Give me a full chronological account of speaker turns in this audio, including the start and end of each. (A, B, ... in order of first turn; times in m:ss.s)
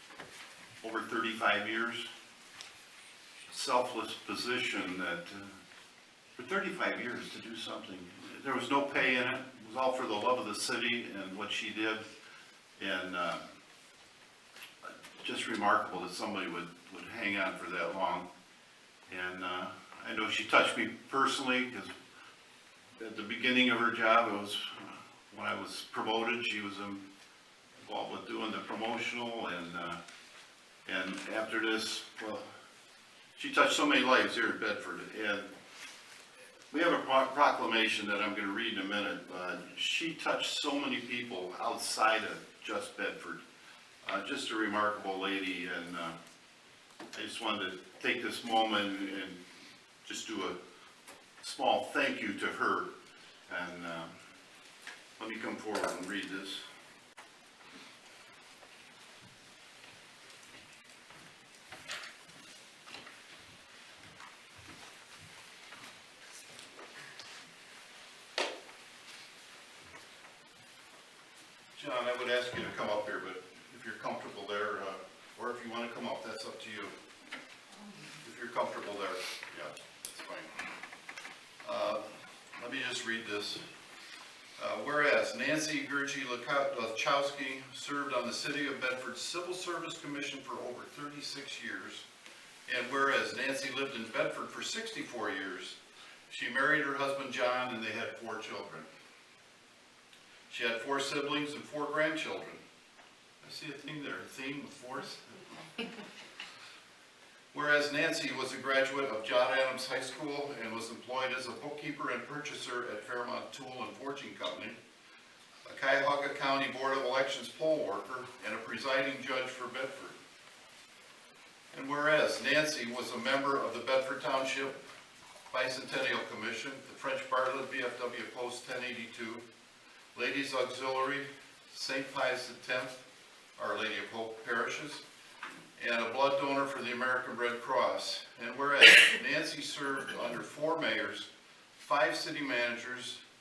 0:00.8-0:02.1 A
0:03.5-0:05.6 A
0:06.4-0:12.0 A
0:12.8-0:13.4 A
0:14.8-0:18.2 A
0:19.1-0:21.9 A
0:23.0-0:27.0 A
0:27.8-0:30.0 A
0:30.8-0:32.4 A
0:33.4-0:35.5 A
0:36.7-0:43.4 A
0:44.0-0:46.2 A
0:47.1-0:49.4 A
0:50.0-0:50.6 A
0:51.4-0:52.9 A
0:53.5-0:54.1 A
0:55.2-0:56.6 A
1:11.8-1:16.9 A
1:18.2-1:20.5 A
1:21.6-1:22.0 A
1:22.6-1:23.6 A
1:24.6-1:32.0 A
1:32.6-1:35.8 A
1:36.3-1:38.8 A
1:40.5-1:42.6 A
1:43.4-1:45.6 A
1:47.5-1:54.7 A
1:55.6-2:00.2 A
2:01.7-2:04.8 A
2:05.5-2:09.4 A
2:10.1-2:13.0 A
2:13.6-2:15.0 A
2:15.8-2:23.2 A